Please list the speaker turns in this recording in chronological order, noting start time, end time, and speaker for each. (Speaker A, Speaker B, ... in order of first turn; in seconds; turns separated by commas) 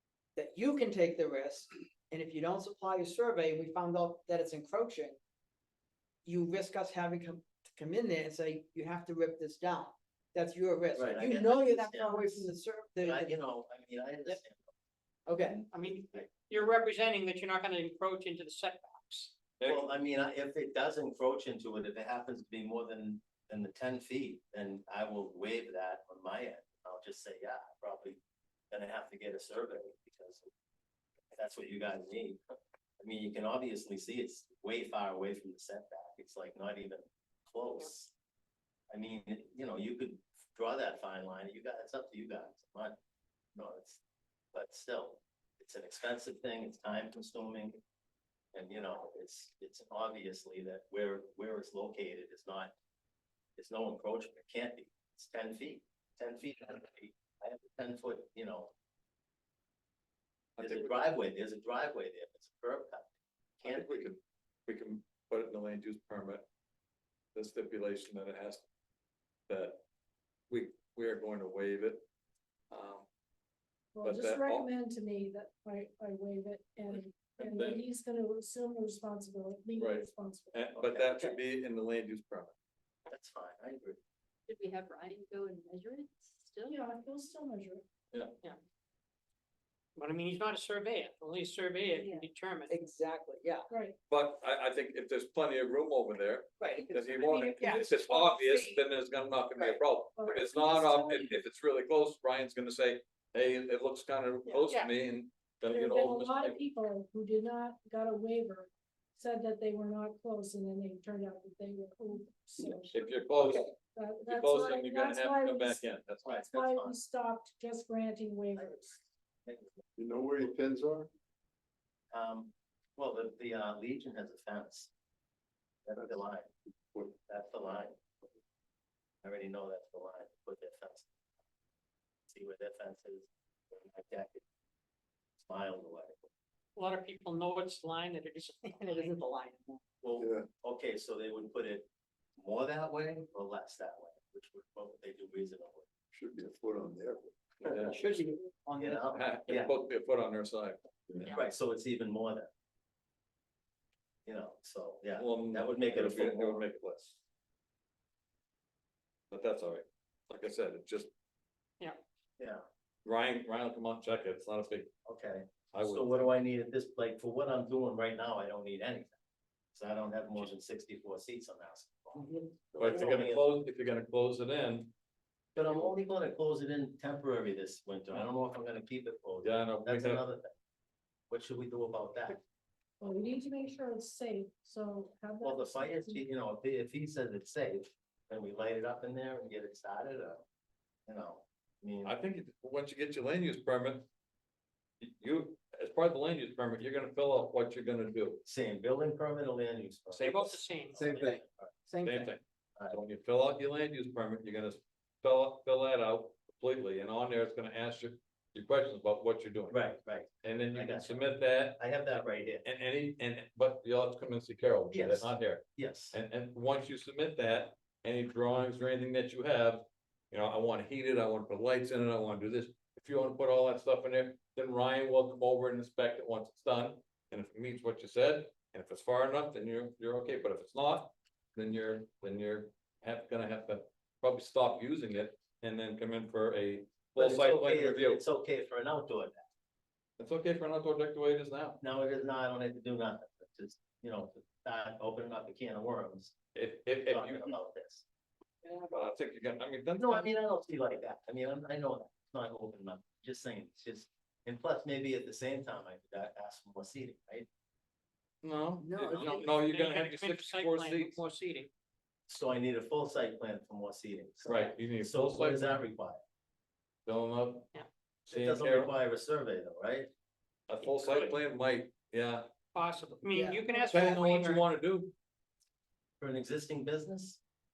Speaker A: 0.3-5.2, Speaker A: 6.2-13.3, Speaker B: 10.9-14.7, Speaker A: 15.3-15.6, Speaker C: 15.7-19.4, Speaker B: 15.8-16.4, Speaker D: 19.6-19.9, Speaker B: 19.6-30.5, Speaker B: 31.3-32.4, Speaker B: 33.0-38.1, Speaker B: 38.9-43.0, Speaker B: 43.5-44.0, Speaker B: 44.5-47.8, Speaker B: 48.5-52.7, Speaker B: 53.6-58.7, Speaker D: 60.6-61.0, Speaker B: 60.6-64.1, Speaker D: 63.6-66.4, Speaker D: 67.3-68.6, Speaker D: 69.5-69.8, Speaker D: 70.5-72.0, Speaker D: 72.7-73.0, Speaker E: 73.9-80.7, Speaker D: 74.0-74.7, Speaker D: 77.5-77.8, Speaker D: 79.8-82.5, Speaker B: 80.7-81.4, Speaker B: 83.1-84.0, Speaker F: 84.5-86.8, Speaker E: 86.7-87.8, Speaker C: 90.0-92.8, Speaker F: 92.0-92.2, Speaker A: 92.7-93.7, Speaker E: 93.7-94.0, Speaker D: 94.1-106.6, Speaker A: 96.6-98.8, Speaker E: 97.4-97.8, Speaker E: 100.2-101.4, Speaker E: 105.7-113.1, Speaker D: 112.9-113.7, Speaker A: 113.4-113.7, Speaker E: 113.8-115.8, Speaker D: 114.2-116.3, Speaker B: 116.2-117.0, Speaker E: 116.3-119.0, Speaker B: 118.5-118.9, Speaker B: 119.4-119.8, Speaker G: 120.0-121.1, Speaker B: 122.1-124.9, Speaker B: 125.8-126.5, Speaker B: 127.3-128.0, Speaker B: 129.2-131.1, Speaker B: 132.3-134.4, Speaker B: 135.4-136.3, Speaker C: 136.8-139.3, Speaker A: 138.8-139.8, Speaker B: 140.0-145.9, Speaker G: 140.2-140.5, Speaker G: 146.1-147.9, Speaker A: 147.9-149.0, Speaker B: 148.8-149.7, Speaker D: 149.1-151.3, Speaker B: 151.2-152.5, Speaker B: 154.2-156.7, Speaker D: 155.2-157.2, Speaker D: 159.3-161.1, Speaker B: 162.4-162.6, Speaker D: 163.0-164.9, Speaker B: 165.0-169.2, Speaker D: 165.7-166.3, Speaker B: 169.7-173.5, Speaker A: 172.2-172.5, Speaker D: 172.8-174.9, Speaker B: 175.5-180.5, Speaker D: 179.4-180.2, Speaker B: 181.3-182.4, Speaker E: 183.0-186.2, Speaker B: 185.4-190.4, Speaker B: 191.1-192.2, Speaker D: 192.0-194.1, Speaker D: 195.0-198.4, Speaker B: 198.4-201.7, Speaker D: 200.1-200.6, Speaker C: 200.2-201.0, Speaker A: 201.0-202.3, Speaker D: 202.0-209.9, Speaker B: 209.7-212.6, Speaker D: 210.4-211.8, Speaker D: 212.6-238.2, Speaker B: 214.9-216.2, Speaker B: 237.2-239.4, Speaker D: 240.2-241.8, Speaker B: 241.8-246.3, Speaker D: 246.5-247.4, Speaker B: 247.1-248.0, Speaker D: 248.7-250.3, Speaker B: 250.0-257.5, Speaker D: 258.4-261.2, Speaker A: 258.8-259.5, Speaker C: 259.1-261.7, Speaker B: 262.3-266.2, Speaker D: 264.4-265.8, Speaker D: 267.1-267.7, Speaker D: 268.3-268.9, Speaker B: 268.3-270.1, Speaker D: 270.7-272.5, Speaker C: 271.1-271.3, Speaker C: 272.7-274.6, Speaker A: 273.3-274.1, Speaker D: 273.9-275.1, Speaker B: 276.2-277.4